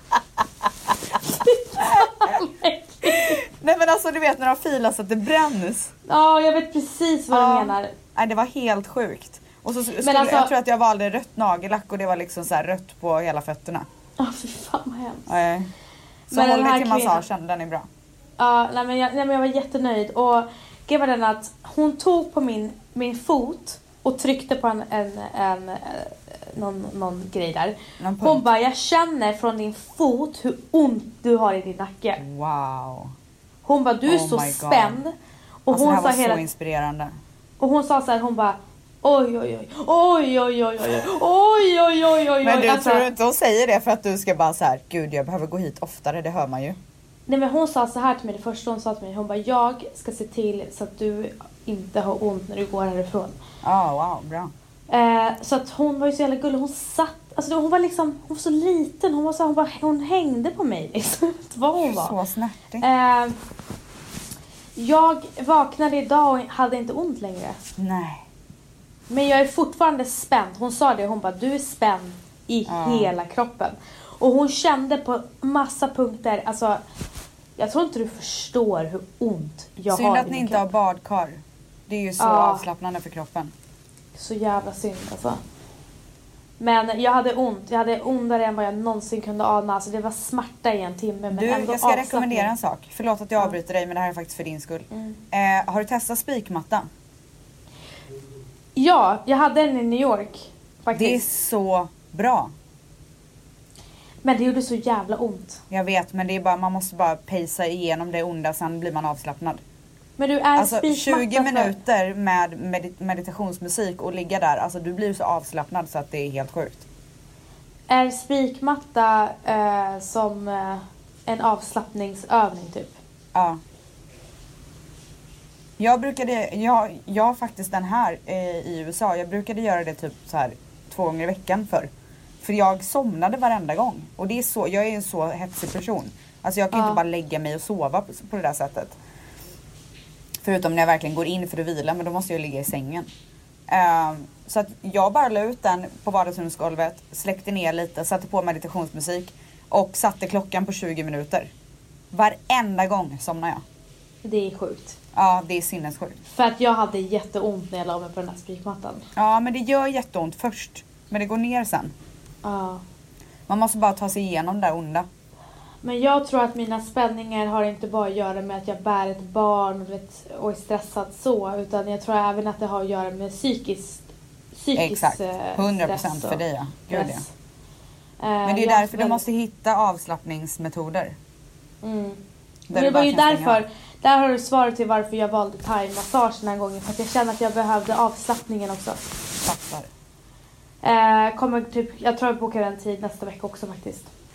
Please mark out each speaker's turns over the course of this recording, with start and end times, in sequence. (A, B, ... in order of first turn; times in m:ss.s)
0:01.3-0:03.4 A
0:01.8-0:02.4 B
0:03.0-0:05.9 B
0:06.1-0:07.9 A
0:07.3-0:13.9 B
0:10.0-0:10.5 A
0:14.2-0:15.3 A
0:15.3-0:15.7 B
0:16.3-0:17.2 A
0:16.3-0:17.9 B
0:18.4-0:32.2 A
0:28.0-0:28.4 B
0:32.2-0:33.1 B
0:33.6-0:35.1 A
0:34.1-0:35.0 B
0:35.7-0:36.4 A
0:35.7-0:37.1 B
0:37.6-0:43.1 A
0:42.4-0:46.8 B
0:47.3-0:53.4 A
0:53.6-0:54.5 B
0:54.9-1:02.2 A
1:01.8-1:02.9 B
1:02.8-1:03.4 A
1:04.8-1:07.6 A
1:07.8-1:08.2 B
1:09.1-1:16.8 A
1:12.7-1:13.1 B
1:17.6-1:20.7 A
1:19.9-1:23.5 B
1:22.2-1:22.6 A
1:24.2-1:25.4 A
1:26.6-1:32.5 A
1:31.3-1:36.9 B
1:38.8-1:41.2 A
1:40.9-1:42.5 B
1:44.2-1:45.6 A
1:45.7-1:49.6 B
1:50.2-1:51.8 A
1:50.6-1:56.8 B
1:57.9-2:03.0 A
2:03.3-2:03.6 B
2:05.8-2:11.9 B
2:12.4-2:19.0 B
2:16.7-2:17.0 A
2:20.4-2:23.1 B
2:23.7-2:31.5 B
2:32.1-2:33.6 B
2:34.2-2:35.0 A
2:35.1-2:36.2 B
2:36.3-2:39.1 A
2:39.2-2:41.9 B
2:42.4-2:42.8 A
2:43.5-2:45.1 B
2:45.8-2:57.3 A
2:54.8-2:57.2 B
2:58.2-2:59.2 A
2:58.4-3:01.2 B
3:01.8-3:02.2 A
3:02.7-3:03.6 B
3:02.7-3:09.0 A
3:09.4-3:09.9 B
3:10.8-3:14.1 A